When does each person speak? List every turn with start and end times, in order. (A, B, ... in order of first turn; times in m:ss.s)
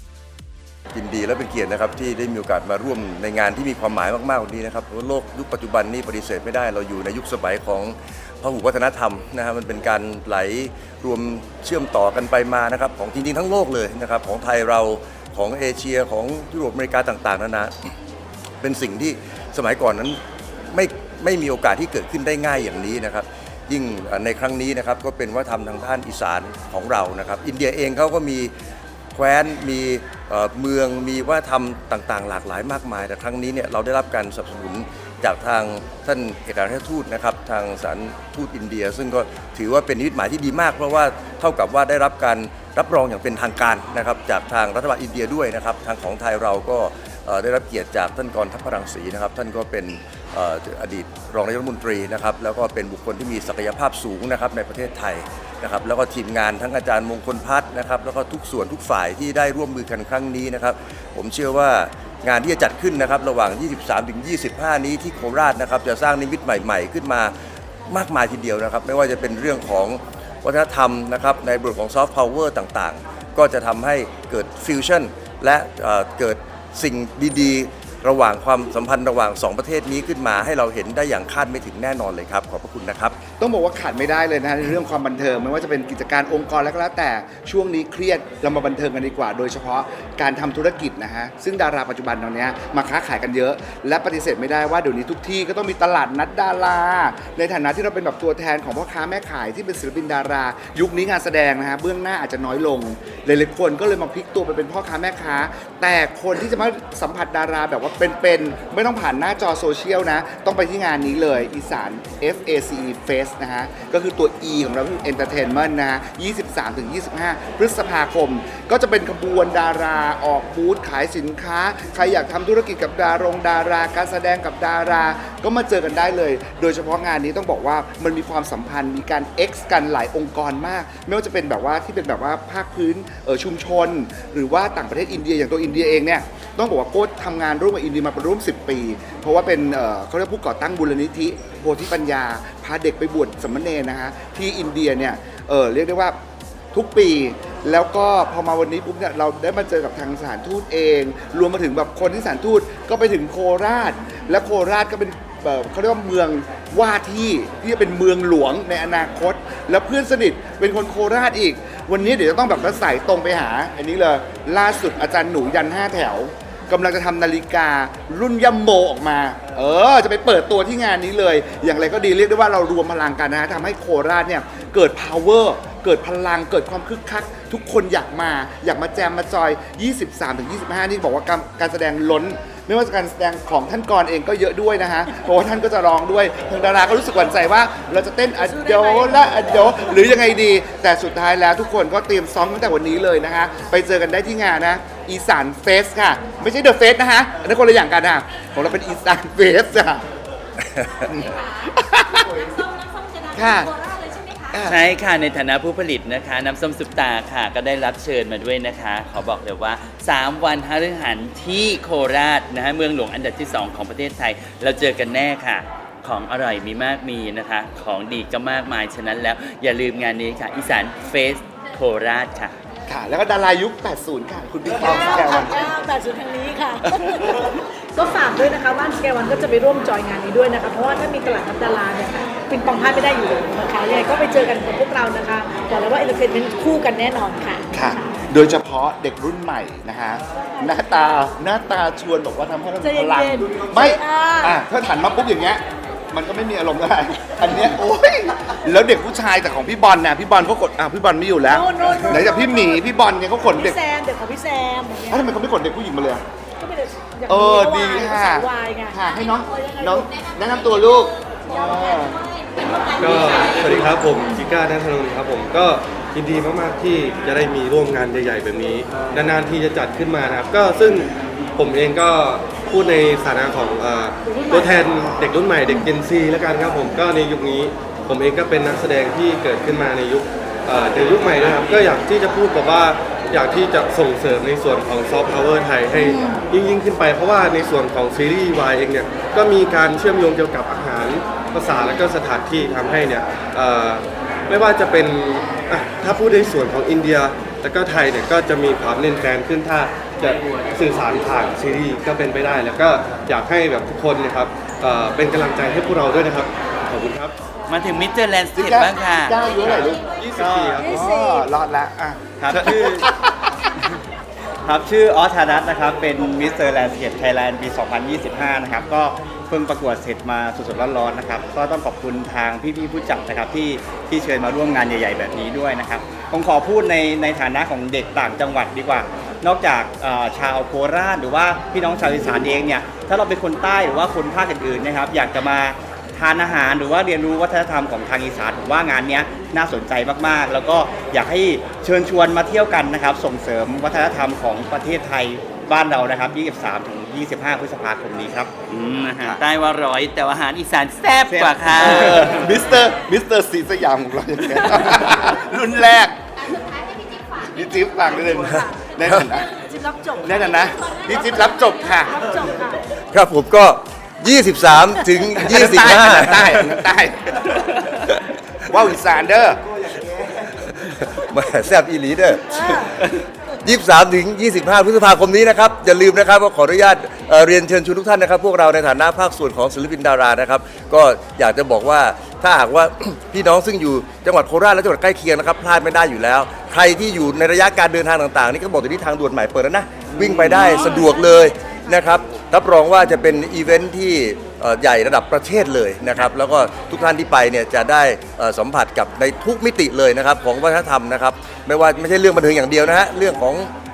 0:00.9-0:17.9 A
0:18.6-0:20.2 A
0:20.7-0:28.5 A
0:29.1-1:07.3 A
1:07.9-1:23.2 A
1:23.4-2:26.2 B
2:26.7-3:20.0 B
3:21.0-3:22.3 B
3:23.3-3:23.7 B
3:24.5-3:24.8 B
3:24.6-3:42.5 C
3:42.9-3:45.7 B
3:44.9-3:47.3 D
3:48.0-3:58.0 D
3:57.7-4:13.8 B
4:02.8-4:04.6 D
4:11.5-4:12.8 D
4:13.6-4:15.3 D
4:15.1-4:16.2 B
4:16.6-4:19.0 D
4:17.3-4:22.2 B
4:22.9-5:07.4 E
4:34.3-4:34.6 D
5:07.7-5:09.4 C
5:08.5-5:10.0 B
5:09.6-5:10.9 E
5:10.4-5:10.8 F
5:10.8-5:13.5 B
5:12.4-5:12.7 F
5:12.6-5:12.9 E
5:14.6-5:48.5 F
5:48.7-5:52.5 C
5:51.3-5:56.6 B
5:57.3-5:59.5 B
5:59.8-6:00.1 D
6:00.1-6:02.4 B
6:03.1-6:06.8 A
6:05.4-6:07.8 B
6:08.6-6:09.6 B
6:10.6-6:43.7 A